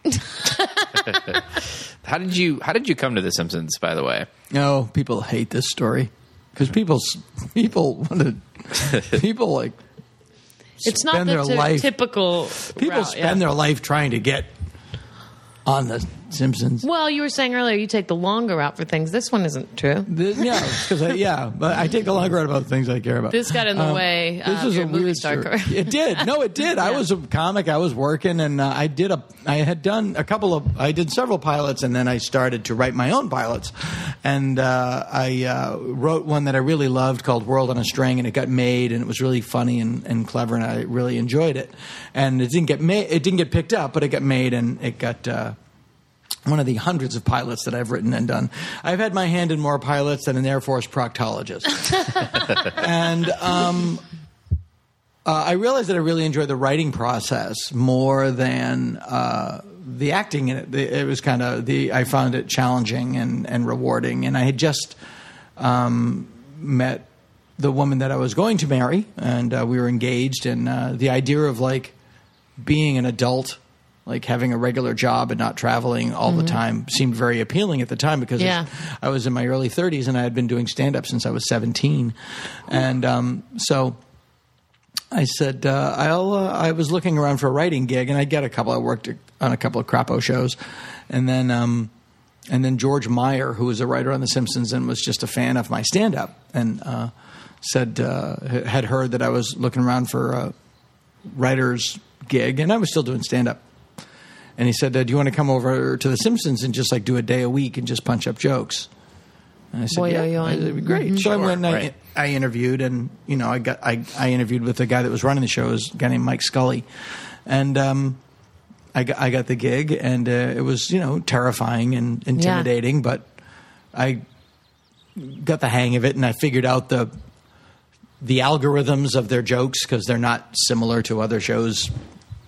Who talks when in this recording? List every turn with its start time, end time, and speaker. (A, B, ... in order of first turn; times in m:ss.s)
0:00.2-0:01.3 A
0:01.1-0:01.4 B
0:02.0-0:04.3 B
0:04.5-0:09.8 C
0:10.8-0:11.9 C
0:10.8-0:13.4 A
0:12.6-0:14.5 C
0:15.6-0:16.8 C
0:16.8-0:20.9 A
0:20.0-0:45.6 C
0:23.3-0:27.0 A
0:46.4-0:54.0 C
0:55.2-1:05.0 C
1:05.6-1:07.1 C
1:07.6-1:11.9 C
1:12.6-1:24.0 C
1:16.3-1:16.6 A
1:18.4-1:18.7 A
1:25.1-1:30.6 C
1:31.1-1:31.9 C
1:32.5-1:40.5 C
1:41.3-1:43.6 C
1:44.6-1:48.9 C
1:49.7-1:56.8 C
1:49.9-1:51.2 A
1:51.2-1:51.9 B
1:57.4-1:58.2 C
1:58.9-2:03.3 C
2:02.4-2:02.7 A
2:03.9-2:04.2 C
2:05.1-2:07.1 C
2:08.2-2:11.9 C